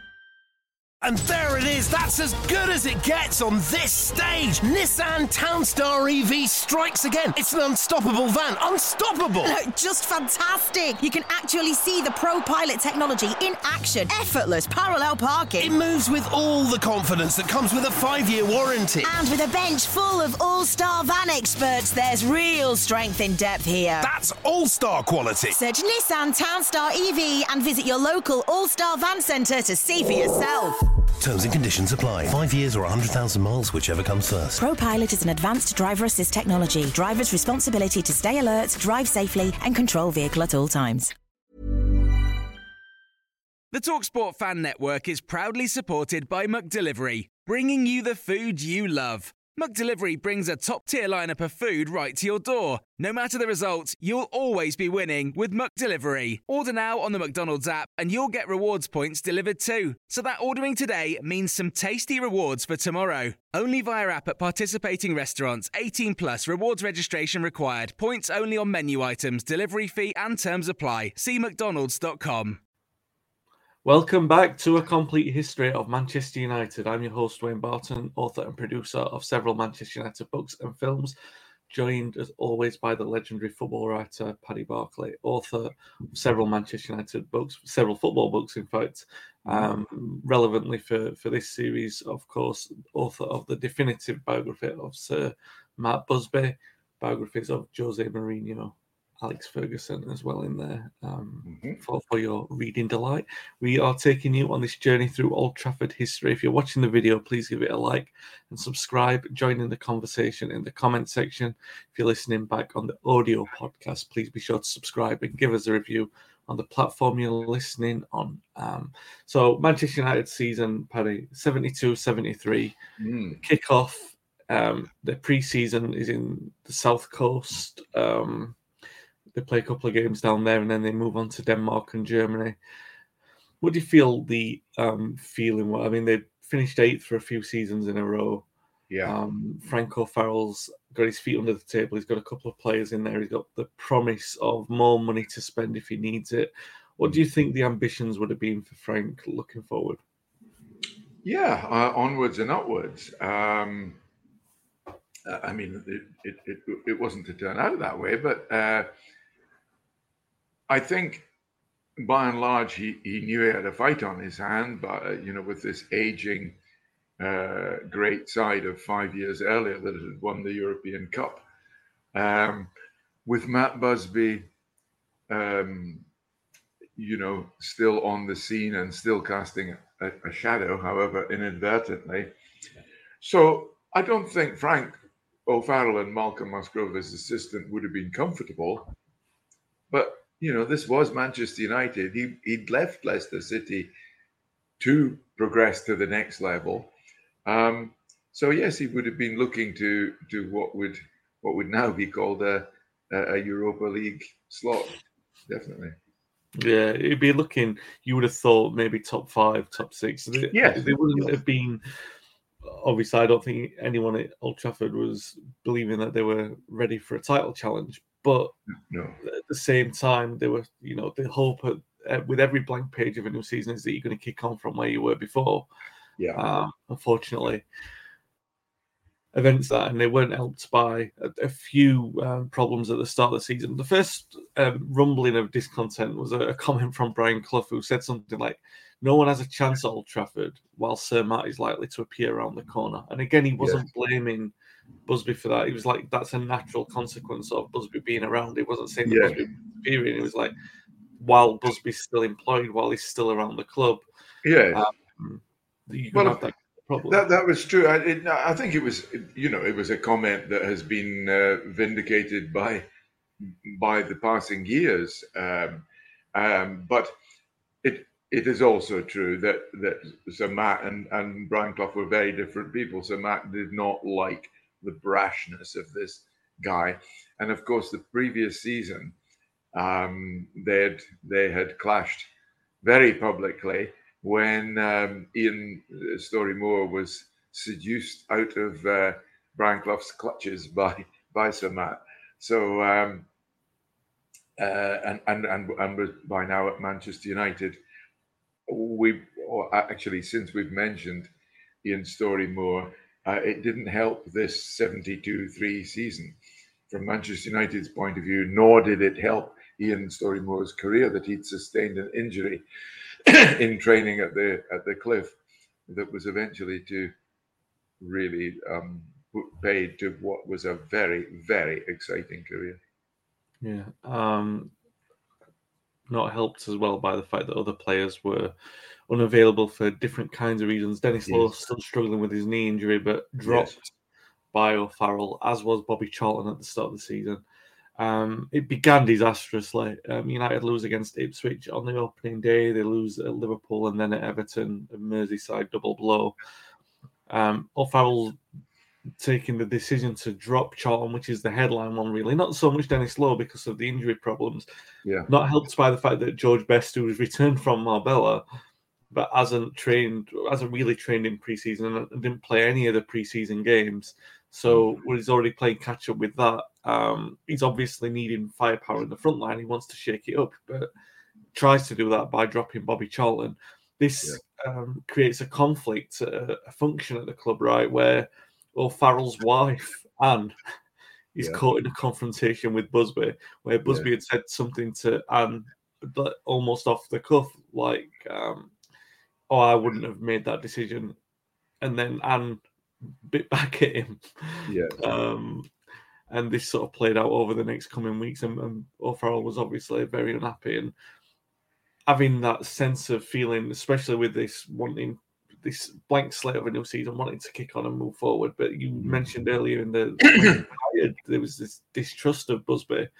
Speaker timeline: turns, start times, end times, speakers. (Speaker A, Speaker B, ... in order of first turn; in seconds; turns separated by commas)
Speaker A: 1.0-9.5, Speaker B: 9.4-15.8, Speaker A: 15.6-19.1, Speaker B: 19.0-24.1, Speaker A: 24.0-25.6, Speaker B: 25.5-30.8, Speaker A: 31.2-34.6, Speaker B: 34.6-41.1, Speaker C: 43.7-72.6, Speaker D: 73.8-81.1, Speaker D: 81.7-122.8, Speaker E: 89.5-89.7, Speaker E: 101.5-101.8, Speaker E: 123.0-123.4, Speaker D: 123.4-128.6, Speaker D: 129.4-132.6, Speaker D: 133.6-138.5, Speaker D: 139.1-150.0, Speaker E: 151.2-154.0, Speaker E: 155.2-158.9, Speaker E: 160.7-161.3, Speaker E: 162.0-166.6, Speaker E: 167.2-171.4, Speaker E: 172.1-172.7, Speaker E: 173.2-174.5, Speaker E: 175.3-176.1, Speaker E: 177.0-182.3, Speaker E: 183.2-188.9, Speaker E: 189.9-193.9, Speaker E: 194.8-196.9, Speaker E: 197.4-206.0, Speaker D: 206.6-211.8, Speaker E: 210.5-211.4, Speaker D: 212.6-218.5, Speaker E: 218.9-219.2, Speaker D: 219.2-225.7, Speaker D: 226.3-227.6, Speaker D: 229.3-244.5, Speaker E: 243.6-243.8, Speaker D: 245.1-250.6, Speaker E: 249.1-249.4, Speaker D: 251.2-254.0, Speaker E: 254.4-254.9, Speaker D: 254.7-257.2, Speaker E: 256.1-256.4, Speaker E: 257.1-262.9, Speaker E: 263.4-267.1, Speaker E: 267.8-279.1, Speaker E: 279.7-282.3, Speaker E: 282.8-293.3, Speaker E: 294.6-297.8, Speaker E: 298.7-301.3, Speaker E: 301.8-306.4, Speaker E: 306.9-312.6, Speaker E: 313.2-315.3, Speaker E: 315.9-317.1, Speaker E: 318.0-322.8, Speaker D: 323.6-324.7, Speaker D: 326.1-328.5, Speaker D: 329.1-333.9, Speaker E: 333.5-333.8, Speaker D: 334.5-337.4, Speaker D: 338.0-346.4, Speaker D: 347.3-348.4, Speaker D: 349.2-354.6, Speaker E: 355.0-355.3, Speaker D: 355.3-358.4, Speaker D: 359.1-370.9, Speaker D: 371.5-380.6, Speaker D: 381.4-388.7, Speaker D: 389.5-391.1, Speaker D: 391.8-392.6, Speaker D: 393.2-395.7, Speaker E: 394.7-395.1, Speaker D: 396.3-400.9, Speaker D: 402.1-413.1